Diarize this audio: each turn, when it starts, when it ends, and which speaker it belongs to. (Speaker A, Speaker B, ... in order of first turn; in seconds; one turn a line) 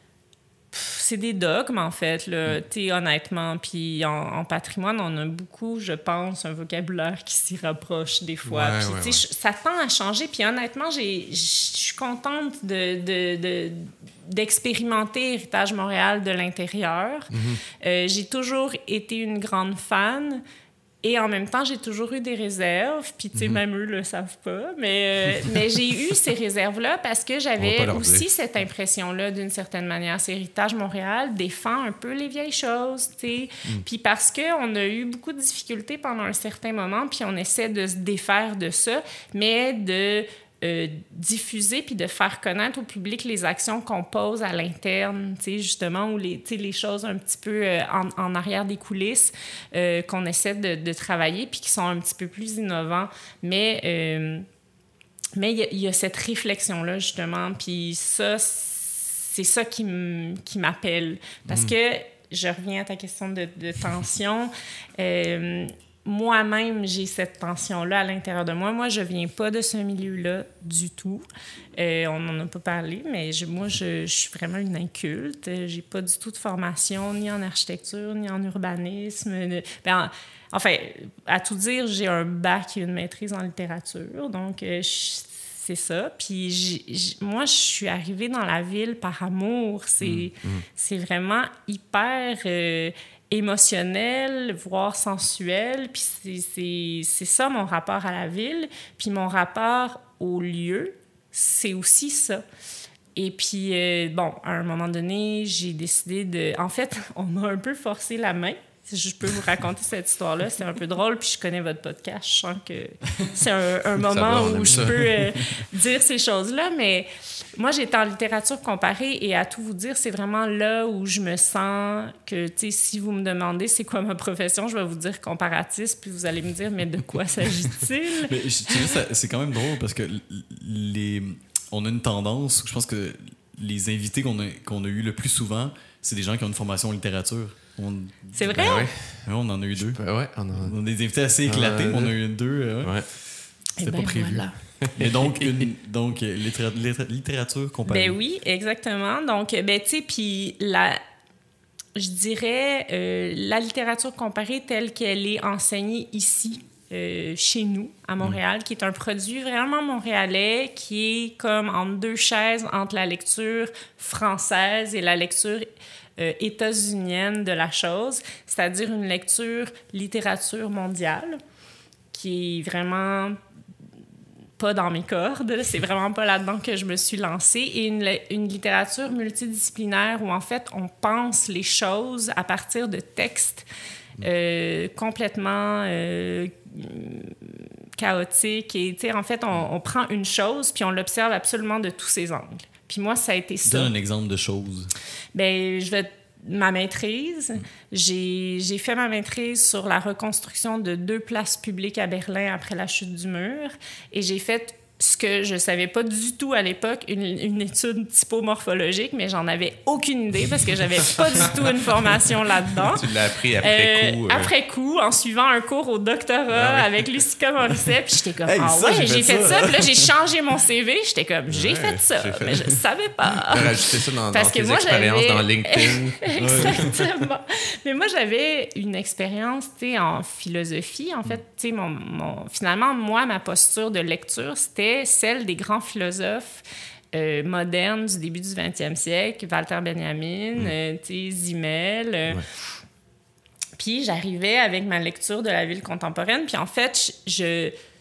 Speaker A: 0.7-20.4
Speaker B: 8.4-9.2
Speaker B: 17.3-17.6
Speaker A: 21.0-54.5
Speaker B: 23.3-23.6
Speaker B: 27.6-28.2
Speaker A: 55.4-102.4
Speaker B: 61.5-61.7
Speaker B: 90.0-90.7
Speaker A: 103.2-128.8
Speaker B: 114.0-115.2
Speaker C: 114.7-114.9
Speaker C: 128.2-140.0
Speaker A: 138.3-138.9
Speaker B: 138.5-140.8
Speaker C: 140.5-143.3
Speaker B: 141.4-142.2
Speaker A: 143.8-144.6
Speaker C: 143.8-148.2
Speaker B: 144.8-145.7
Speaker A: 147.8-151.0
Speaker A: 151.9-165.7
Speaker A: 166.2-171.4
Speaker A: 172.1-173.4
Speaker A: 174.6-183.7
Speaker A: 184.2-193.9
Speaker C: 193.7-194.9
Speaker A: 195.3-242.4
Speaker B: 212.9-214.5
Speaker B: 216.5-216.9
Speaker C: 218.4-220.1
Speaker B: 221.5-222.6
Speaker B: 223.3-226.8
Speaker C: 226.4-227.0
Speaker A: 243.8-247.7